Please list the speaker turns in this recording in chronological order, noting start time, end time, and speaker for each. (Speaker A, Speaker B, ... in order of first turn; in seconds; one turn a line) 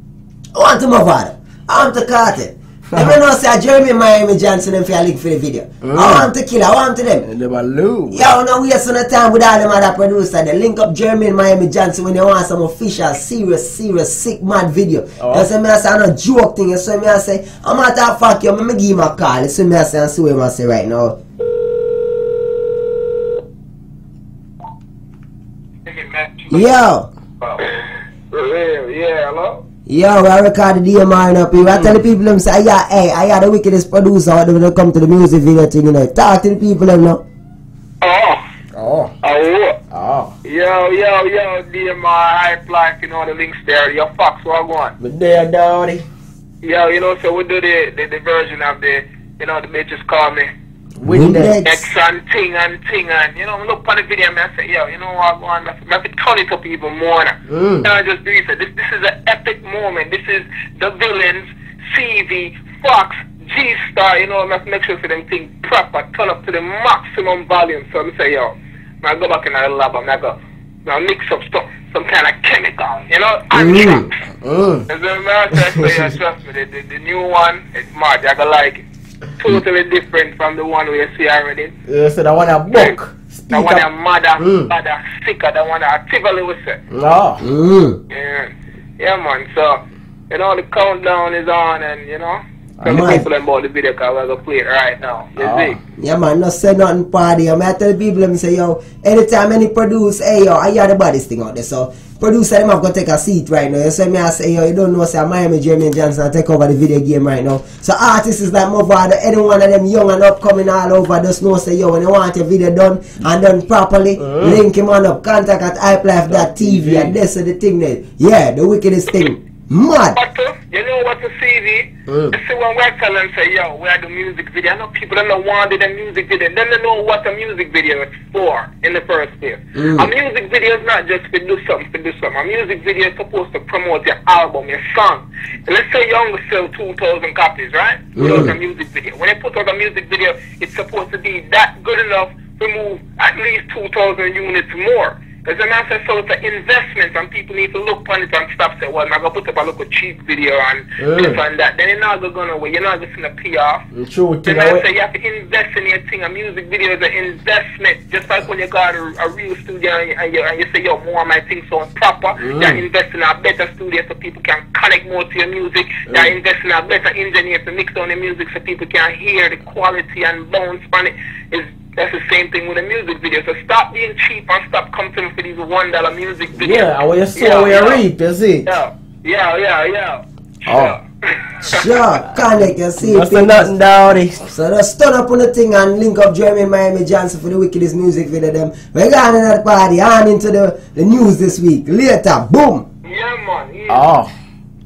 Speaker A: 0.5-7.3
Speaker B: 5.8-6.3
Speaker B: 7.2-8.3
Speaker A: 8.1-21.1
Speaker B: 15.2-15.5
Speaker C: 25.9-26.7
Speaker A: 26.5-27.1
Speaker C: 27.4-29.6
Speaker A: 29.9-37.2
Speaker B: 31.6-32.0
Speaker C: 38.0-38.4
Speaker B: 38.7-39.1
Speaker C: 39.2-39.8
Speaker B: 39.9-40.3
Speaker C: 40.4-44.9
Speaker B: 45.0-46.0
Speaker C: 46.6-50.5
Speaker B: 51.0-51.6
Speaker A: 51.0-51.9
Speaker C: 51.6-74.1
Speaker B: 57.5-57.9
Speaker A: 73.5-74.1
Speaker B: 74.4-74.9
Speaker C: 74.9-78.8
Speaker C: 79.4-81.7
Speaker B: 81.9-83.9
Speaker C: 83.5-86.8
Speaker B: 84.4-84.7
Speaker B: 86.9-87.5
Speaker A: 87.4-88.0
Speaker C: 88.1-95.8
Speaker A: 92.8-93.3
Speaker B: 95.4-95.8
Speaker A: 96.0-120.2
Speaker B: 114.2-114.6
Speaker B: 116.3-117.1
Speaker C: 120.1-153.8
Speaker B: 122.1-122.4
Speaker A: 129.7-130.1
Speaker A: 138.2-138.5
Speaker B: 138.2-138.5
Speaker B: 151.0-151.4
Speaker B: 153.9-154.8
Speaker C: 154.4-178.0
Speaker B: 162.4-162.8
Speaker B: 166.1-166.3
Speaker B: 176.6-178.7
Speaker C: 178.7-181.8
Speaker B: 180.7-180.9
Speaker A: 181.6-183.7
Speaker B: 183.0-184.4
Speaker A: 184.4-192.8
Speaker C: 193.0-194.1
Speaker B: 193.9-194.3